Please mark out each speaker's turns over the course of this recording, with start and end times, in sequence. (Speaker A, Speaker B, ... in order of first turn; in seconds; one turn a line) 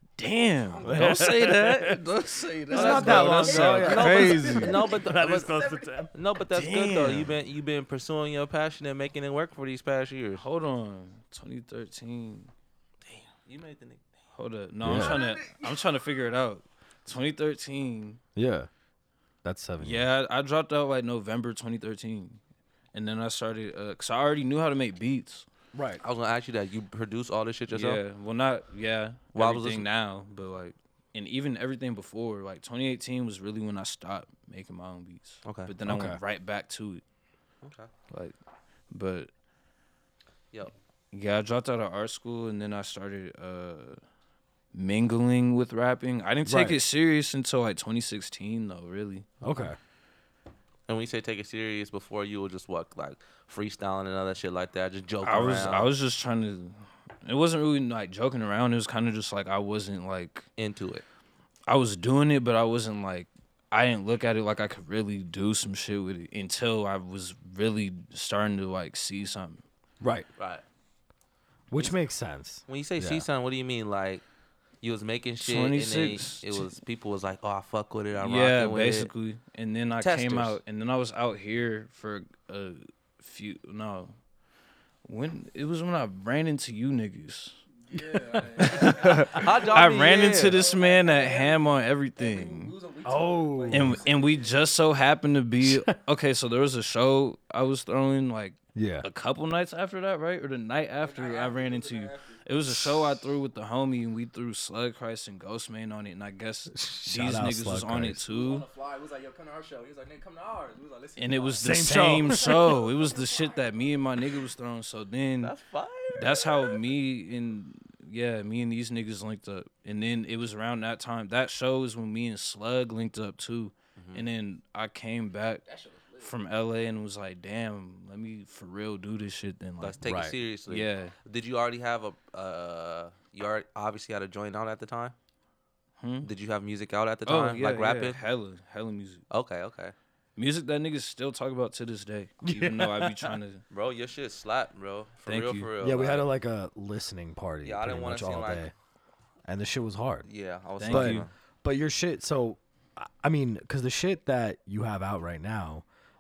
Speaker A: 0.2-4.8
Speaker B: 0.7-1.6
Speaker C: 0.8-2.0
Speaker C: 2.7-6.1
Speaker B: 2.7-6.1
Speaker D: 2.9-5.6
Speaker D: 6.1-10.4
Speaker A: 6.5-7.3
Speaker A: 10.4-12.5
Speaker D: 13.4-14.1
Speaker A: 14.3-18.2
Speaker C: 14.8-15.2
Speaker B: 14.9-15.8
Speaker C: 18.4-18.7
Speaker C: 19.4-20.1
Speaker A: 19.8-22.4
Speaker A: 22.9-25.5
Speaker C: 25.7-26.0
Speaker D: 26.0-28.0
Speaker A: 27.7-37.0
Speaker D: 29.3-29.9
Speaker D: 35.5-35.7
Speaker C: 35.9-36.2
Speaker D: 37.6-37.9
Speaker A: 38.9-39.3
Speaker A: 41.1-44.0
Speaker A: 44.7-49.3
Speaker C: 46.5-46.8
Speaker C: 49.4-49.8
Speaker D: 50.9-55.9
Speaker A: 55.2-60.5
Speaker D: 60.6-61.0
Speaker A: 61.7-69.6
Speaker C: 70.0-70.3
Speaker D: 70.4-70.6
Speaker C: 71.7-73.3
Speaker D: 72.7-74.2
Speaker D: 74.8-79.1
Speaker A: 75.4-76.7
Speaker A: 78.2-84.2
Speaker D: 80.0-80.6
Speaker A: 85.0-87.6
Speaker B: 87.9-94.6
Speaker A: 88.6-92.7
Speaker D: 89.3-90.6
Speaker C: 93.0-94.0
Speaker A: 93.7-108.7
Speaker C: 95.6-95.9
Speaker C: 98.8-99.1
Speaker B: 101.0-102.4
Speaker C: 102.7-103.2
Speaker C: 106.7-108.2
Speaker B: 108.3-113.5
Speaker A: 111.2-115.5
Speaker C: 111.6-112.8
Speaker D: 115.4-116.7
Speaker A: 116.1-125.6
Speaker D: 124.0-124.2
Speaker B: 125.7-126.3
Speaker A: 126.2-130.0
Speaker D: 129.8-135.2
Speaker C: 130.0-130.3
Speaker A: 130.7-131.2
Speaker A: 136.0-136.3
Speaker D: 136.2-138.2
Speaker A: 137.3-139.2
Speaker D: 139.3-139.9
Speaker A: 140.4-143.6
Speaker C: 142.4-143.4
Speaker D: 143.7-146.3
Speaker A: 145.2-145.7
Speaker C: 145.8-148.7
Speaker D: 147.6-148.7
Speaker C: 149.4-150.3
Speaker D: 150.3-151.3
Speaker A: 150.8-151.3
Speaker C: 150.9-155.8